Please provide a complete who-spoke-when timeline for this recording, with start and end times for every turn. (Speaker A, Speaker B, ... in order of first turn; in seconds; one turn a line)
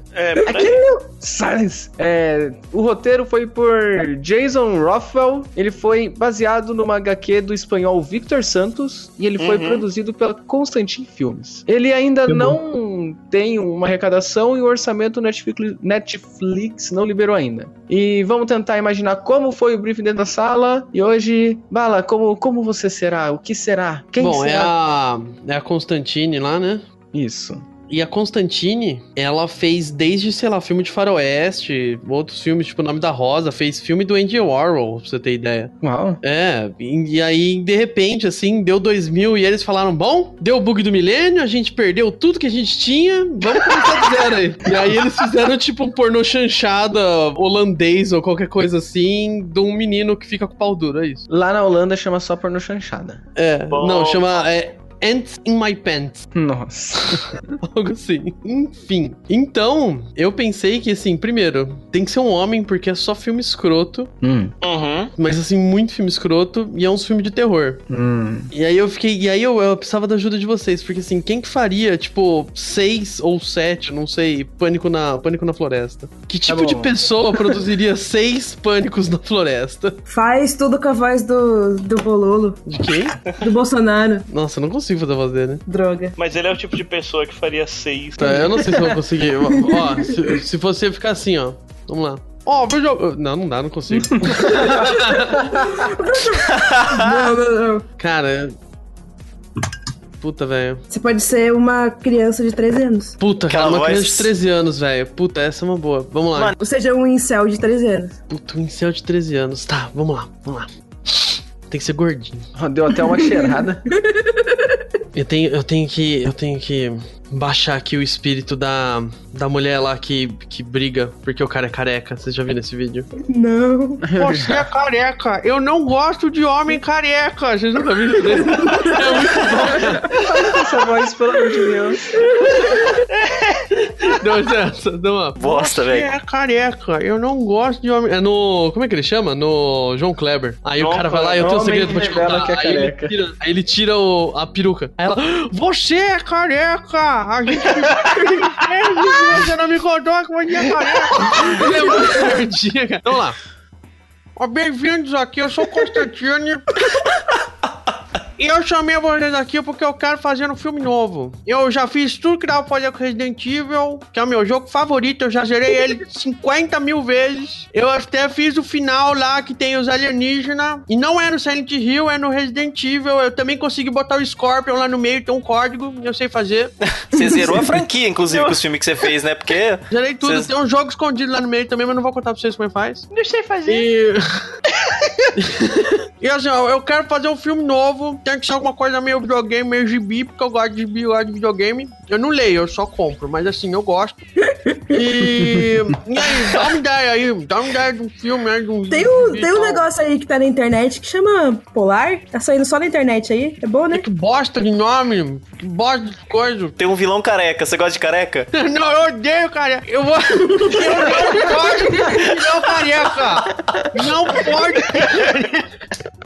Speaker A: 0.1-0.8
Speaker B: 0.4-24.7
Speaker A: 9.4-9.8
Speaker C: 12.3-12.6
Speaker C: 24.2-26.8
Speaker B: 27.1-27.6
Speaker C: 27.9-51.2
Speaker B: 35.8-36.2
Speaker B: 51.3-53.2
Speaker C: 53.4-56.3
Speaker A: 53.7-54.4
Speaker B: 56.3-57.4
Speaker C: 57.6-64.1
Speaker B: 64.2-64.5
Speaker A: 64.6-65.1
Speaker C: 65.2-67.8
Speaker B: 67.9-68.5
Speaker C: 68.5-80.0
Speaker B: 76.5-76.9
Speaker D: 80.1-82.6
Speaker C: 82.7-83.2
Speaker D: 83.4-84.2
Speaker C: 84.3-85.6
Speaker D: 85.7-86.1
Speaker A: 86.2-88.7
Speaker C: 88.2-95.4
Speaker B: 88.7-89.0
Speaker D: 89.6-89.9
Speaker B: 94.2-94.5
Speaker D: 94.5-97.8
Speaker E: 96.4-97.3
Speaker C: 98.0-98.5
Speaker C: 100.2-100.8
Speaker D: 100.9-103.2
Speaker C: 103.2-106.5
Speaker E: 103.5-104.3
Speaker D: 106.6-108.2
Speaker C: 108.3-112.5
Speaker B: 112.5-113.8
Speaker D: 112.9-114.8
Speaker C: 115.1-123.1
Speaker D: 123.2-124.1
Speaker B: 124.0-124.7
Speaker C: 124.2-130.2
Speaker B: 130.1-132.1
Speaker D: 132.4-133.0
Speaker A: 133.1-133.7
Speaker C: 134.0-153.4
Speaker E: 135.4-136.1
Speaker A: 140.8-142.0
Speaker B: 141.4-143.1
Speaker A: 147.7-148.6
Speaker A: 151.1-151.6
Speaker C: 154.4-156.7
Speaker C: 158.4-176.8
Speaker E: 176.8-180.5
Speaker A: 178.3-178.6
Speaker C: 179.9-183.1
Speaker A: 183.1-183.9
Speaker C: 183.7-184.5
Speaker A: 184.7-185.3
Speaker C: 185.4-194.2
Speaker D: 194.4-195.0
Speaker C: 194.9-199.8
Speaker D: 198.9-204.1
Speaker C: 203.9-206.8
Speaker E: 206.8-208.5
Speaker C: 208.5-215.6
Speaker D: 210.5-210.8
Speaker A: 214.9-215.5